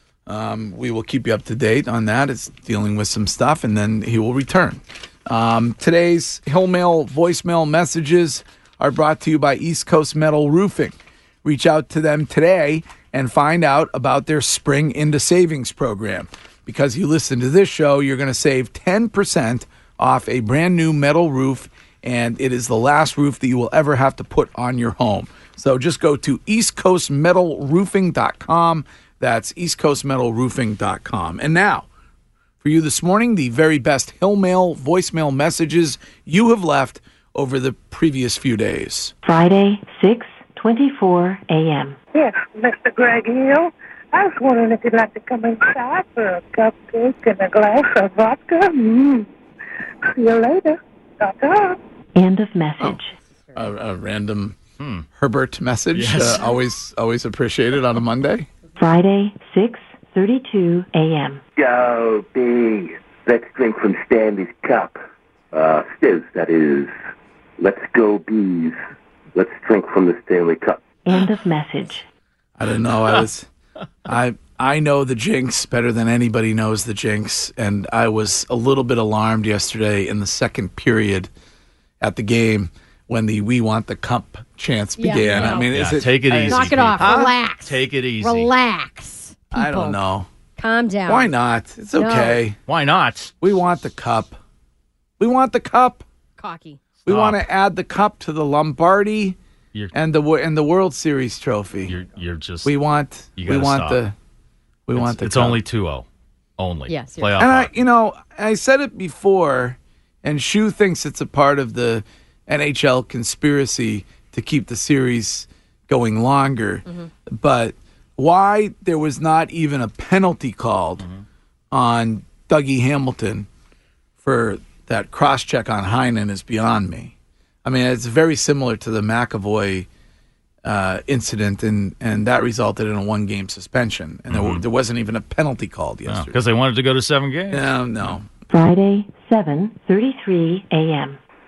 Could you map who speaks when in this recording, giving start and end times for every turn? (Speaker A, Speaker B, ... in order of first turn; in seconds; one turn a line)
Speaker A: 0.3-31.9
Speaker A: 32.6-39.1
Speaker B: 39.2-42.0
Speaker C: 42.1-49.3
Speaker C: 50.2-51.8
Speaker B: 52.1-53.1
Speaker A: 53.5-54.6
Speaker D: 54.8-55.1
Speaker A: 55.1-58.5
Speaker D: 55.9-56.5
Speaker B: 58.8-61.4
Speaker E: 61.6-65.0
Speaker E: 65.5-66.9
Speaker E: 67.6-68.8
Speaker E: 69.3-70.8
Speaker B: 71.1-72.1
Speaker A: 72.6-73.5
Speaker A: 74.1-81.3
Speaker A: 82.0-87.3
Speaker F: 85.0-85.7
Speaker D: 85.2-88.5
Speaker F: 86.5-90.0
Speaker A: 89.5-90.3
Speaker F: 90.6-91.3
Speaker A: 91.1-92.6
Speaker F: 92.0-92.4
Speaker D: 92.7-93.3
Speaker A: 93.4-94.4
Speaker A: 95.2-96.1
Speaker F: 96.4-96.8
Speaker A: 97.0-99.4
Speaker D: 97.1-97.5
Speaker A: 99.9-102.0
Speaker D: 101.9-102.8
Speaker A: 102.6-104.2
Speaker D: 103.4-104.0
Speaker A: 104.9-105.6
Speaker D: 105.0-106.1
Speaker D: 106.6-107.7
Speaker F: 106.9-107.3
Speaker A: 107.4-121.1
Speaker D: 121.0-121.2
Speaker A: 121.7-123.5
Speaker A: 124.2-127.1
Speaker A: 127.7-129.9
Speaker A: 130.6-136.4
Speaker D: 134.3-134.6
Speaker D: 136.1-138.2
Speaker A: 137.5-138.3
Speaker B: 138.6-141.1